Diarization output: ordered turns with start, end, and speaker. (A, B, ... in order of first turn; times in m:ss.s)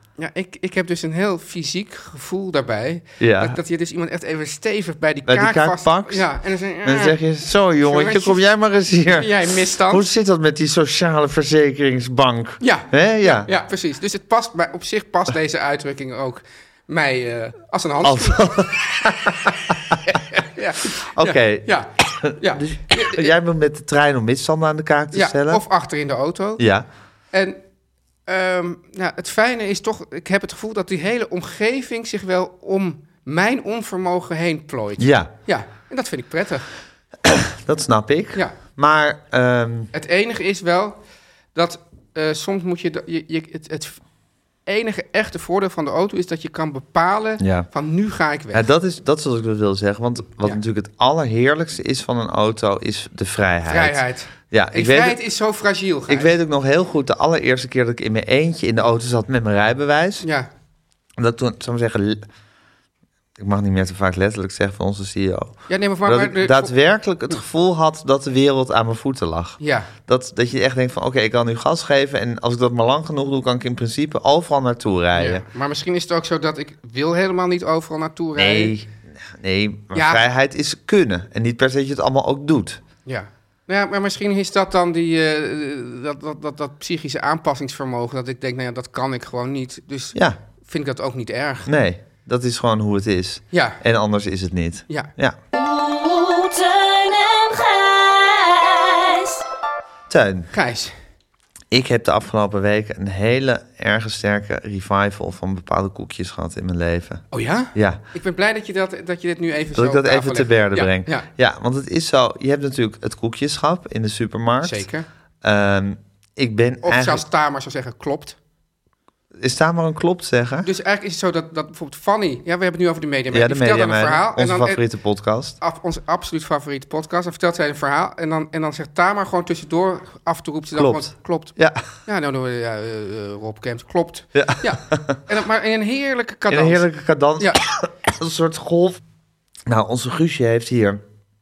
0:00.2-0:07.2 A
0:03.2-0:03.6 B
0:05.2-0:06.3 B
0:06.8-0:09.3 B
0:07.8-0:08.4 A
0:09.0-0:10.0 A
0:09.9-0:13.5 B
0:12.6-0:18.7 A
0:18.0-0:20.0 B
0:19.5-0:23.3 A
0:21.1-0:25.6 B
0:25.1-0:26.6 A
0:26.6-0:26.8 B
0:27.3-0:27.6 A
0:28.2-0:36.7 A
0:35.0-0:35.3 B
0:37.2-0:39.9 B
0:39.9-0:41.0 A
0:41.5-0:44.0 A
0:44.6-0:48.6 A
0:47.4-0:47.7 B
0:48.5-0:55.2 B
0:53.7-0:56.3 A
0:56.1-1:00.2 B
1:00.2-1:00.5 A
1:01.2-1:02.2 B
1:03.4-1:15.4 B
1:05.7-1:06.7 A
1:09.6-1:09.9 A
1:15.1-1:18.7 A
1:18.4-1:22.8 B
1:19.9-1:20.2 A
1:23.0-1:31.7 A
1:31.6-1:35.4 B
1:33.5-1:33.8 A
1:35.5-1:39.4 C
1:40.1-1:40.5 B
1:40.5-1:40.9 A
1:41.7-1:48.0 B
1:47.3-1:51.3 A
1:49.7-1:54.9 B
1:54.6-1:55.0 A
1:55.4-1:57.2 B
1:56.8-1:58.4 A
1:59.4-2:00.7 B
2:00.6-2:04.8 A
2:03.3-2:05.6 B
2:05.6-2:16.8 A
2:10.7-2:11.8 B
2:14.3-2:15.2 B
2:16.5-2:19.0 B
2:19.7-2:21.0 B